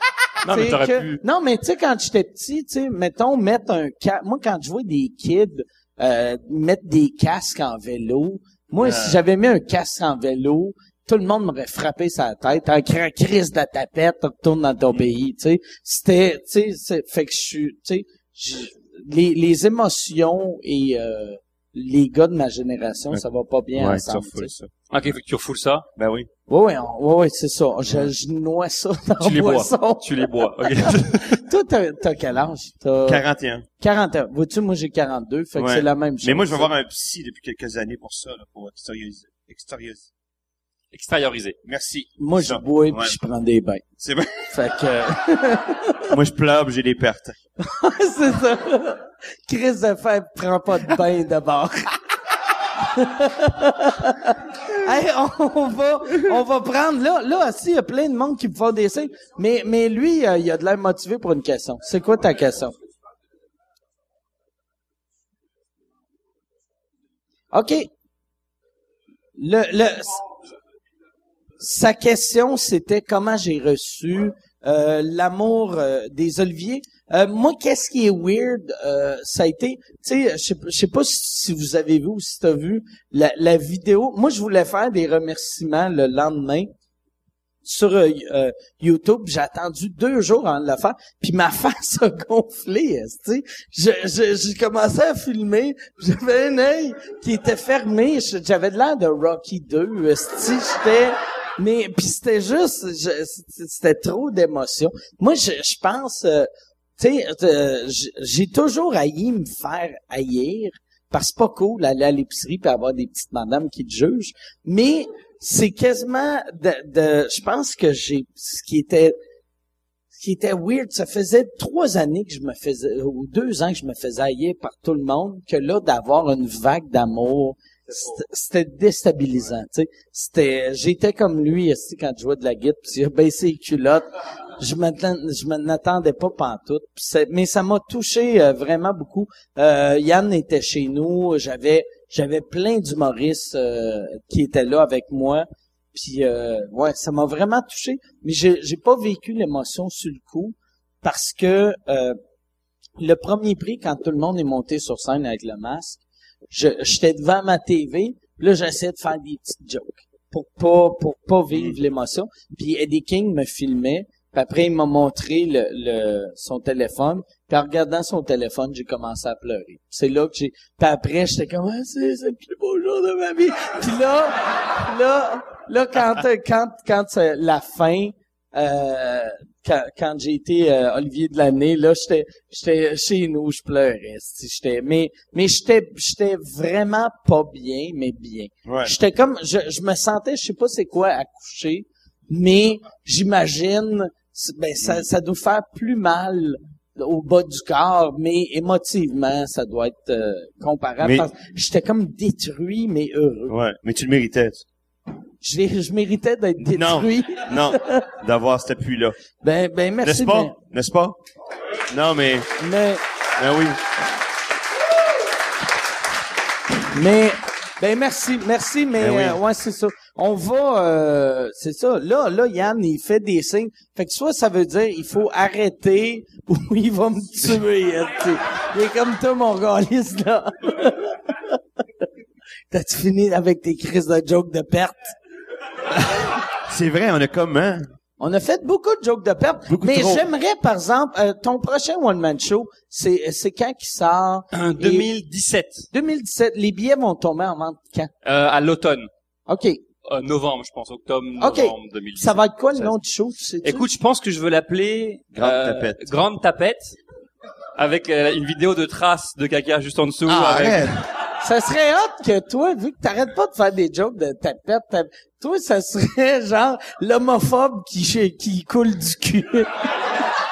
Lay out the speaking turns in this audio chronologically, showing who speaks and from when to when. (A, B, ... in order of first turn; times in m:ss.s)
0:00.4-0:01.2 A
0:00.4-0:24.5 B
0:08.8-0:09.2 C
0:23.8-0:24.7 C
0:24.9-0:25.8 A
0:26.0-0:26.3 C
0:26.5-0:33.2 B
0:29.2-0:31.4 A
0:33.0-0:33.7 C
0:33.8-0:36.7 B
0:35.5-0:40.1 C
0:40.9-0:41.6 A
0:41.6-0:43.2 C
0:42.2-0:43.8 B
0:44.0-0:44.4 C
0:44.5-0:46.1 B
0:46.1-0:47.4 C
0:47.6-0:52.0 B
0:52.8-1:02.8 B
1:07.5-1:07.9 B
1:09.4-1:10.2 B
1:11.6-1:26.7 B
1:27.6-1:59.2 B
2:00.1-2:14.1 B
2:14.6-2:32.2 B
2:33.0-3:23.6 B
2:41.5-2:41.8 C
3:08.6-3:09.0 C
3:21.0-3:21.3 C
3:23.5-3:24.6 C
3:25.4-3:28.1 B
3:26.6-3:29.2 C
3:29.4-3:30.5 B
3:30.0-3:31.2 C
3:31.9-3:32.6 C
3:32.6-3:33.0 B
3:33.4-3:33.8 C
3:36.9-3:51.6 B
3:39.0-3:39.4 C
3:52.7-3:55.2 B
3:55.9-3:57.9 C
3:58.2-4:05.1 B
3:59.7-4:00.3 C
4:04.5-4:05.9 A
4:05.9-4:08.1 B
4:08.2-4:09.1 A
4:09.5-4:09.8 B
4:10.0-4:12.9 A
4:11.4-4:13.8 B
4:13.6-4:16.9 A
4:15.3-4:16.1 C
4:17.8-4:20.9 A
4:20.3-4:21.0 C
4:21.4-4:29.7 B